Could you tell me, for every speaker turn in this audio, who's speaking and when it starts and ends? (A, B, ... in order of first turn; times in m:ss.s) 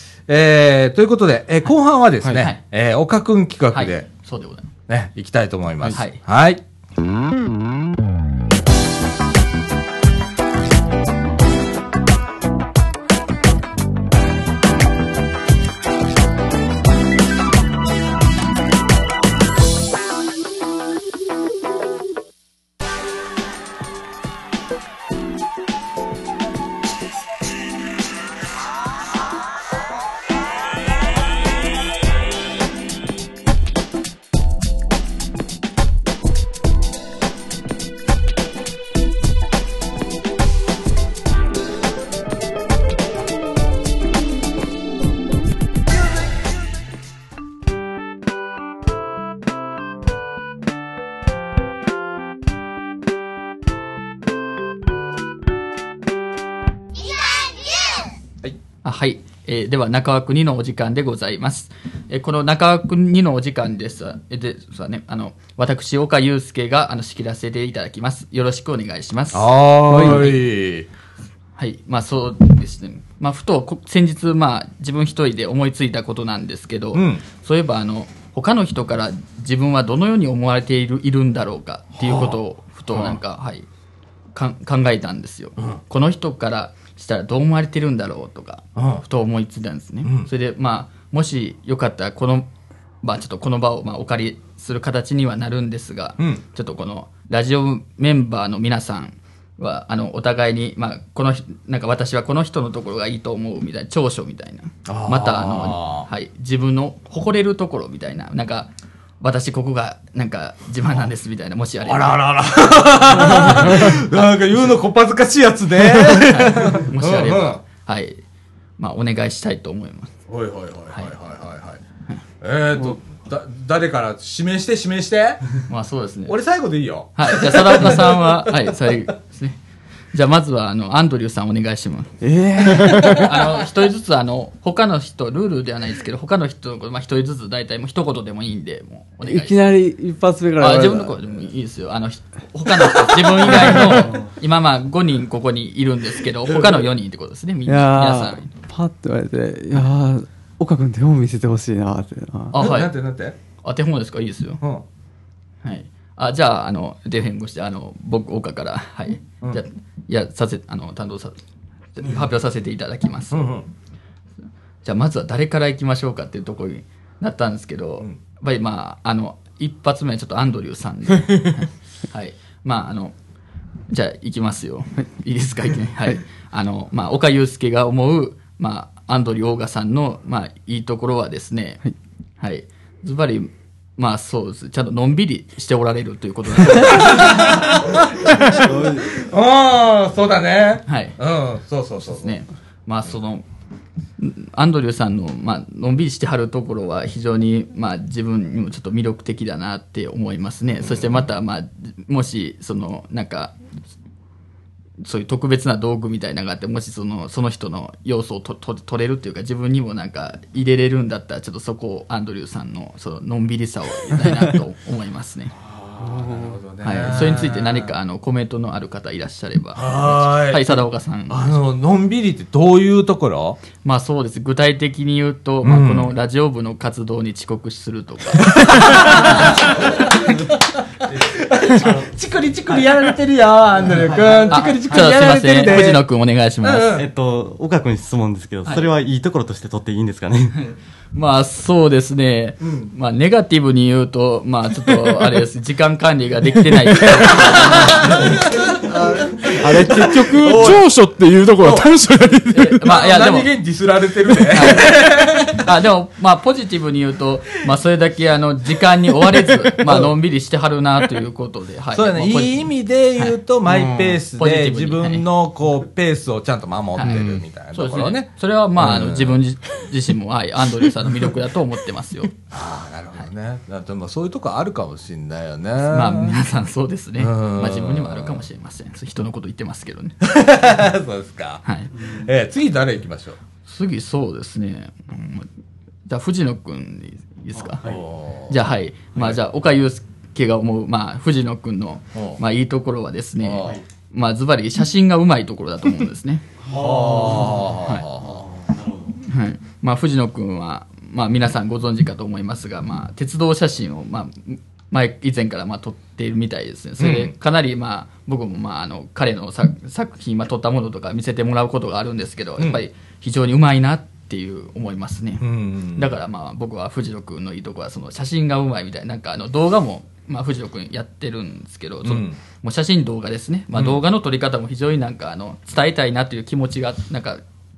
0:00.3-0:04.1 A
0:02.4-0:02.6 B
0:03.7-0:04.7 B
0:04.9-0:06.6 A
0:05.9-0:06.2 B
0:58.8-1:10.4 B
1:09.3-1:10.9 A
1:09.9-1:10.3 C
1:11.6-1:23.7 B
1:16.9-1:17.2 A
1:22.0-1:22.4 A
1:24.4-1:32.5 B
1:28.8-1:29.0 A
1:30.0-1:30.3 A
1:33.0-1:52.2 B
1:44.9-1:46.1 A
1:51.8-1:57.6 A
1:53.0-1:54.3 B
1:56.2-1:58.2 B
1:58.8-2:00.1 B
2:00.3-2:01.8 A
2:02.4-2:05.5 A
2:05.7-2:06.4 B
2:06.3-2:08.5 A
2:07.2-2:09.6 B
2:10.1-2:19.6 B
2:12.2-2:13.3 C
2:12.8-2:13.1 A
2:19.2-2:21.3 C
2:20.6-2:28.5 B
2:26.5-2:26.9 A
2:27.7-2:32.6 C
2:32.5-2:32.9 B
2:32.6-2:33.4 A
2:33.6-2:34.6 B
2:35.6-2:41.4 B
2:42.0-2:43.4 B
2:43.3-2:43.7 A
2:44.8-2:53.2 B
2:53.9-3:01.8 B
3:02.4-3:07.6 B
3:06.7-3:12.4 A
3:08.5-3:09.0 C
3:10.9-3:11.2 B
3:12.0-3:13.4 B
3:14.2-3:23.5 B
3:20.8-3:21.1 A
3:25.0-3:35.6 B
3:35.6-3:37.9 A
3:36.0-3:36.6 C
3:36.8-3:41.6 B
3:39.8-3:43.6 A
3:43.8-3:49.6 B
3:45.6-3:46.1 A
3:48.4-3:56.0 A
3:51.7-3:52.1 D
3:53.9-3:54.8 D
3:54.5-3:56.9 B
3:56.6-3:57.1 A
3:56.9-4:00.7 D
4:00.6-4:08.4 B
4:02.6-4:02.9 A
4:07.2-4:10.9 A
4:09.5-4:12.8 E
4:11.6-4:11.9 A
4:12.5-4:13.5 B
4:12.8-4:15.7 A
4:14.5-4:23.4 B
4:19.8-4:20.1 A
4:21.9-4:29.4 A
4:23.7-4:24.2 E
4:24.3-4:25.2 B
4:27.0-4:32.3 B
4:27.0-4:27.4 E
4:32.5-4:36.4 A
4:35.8-4:40.2 B
4:37.2-4:38.4 A
4:40.2-4:43.4 A
4:41.6-4:41.9 B
4:41.9-4:42.3 D
4:43.7-4:45.5 B
4:46.1-4:47.8 B
4:47.5-4:48.1 D
4:47.8-4:48.6 A
4:48.5-4:56.4 B
4:52.1-4:52.4 A
4:53.4-4:53.8 A
4:56.6-4:59.2 D
4:56.7-4:58.4 A
4:57.8-4:58.1 B
4:59.2-5:27.4 B
5:07.0-5:07.3 A
5:15.4-5:16.2 A
5:22.0-5:22.4 A
5:23.8-5:24.0 A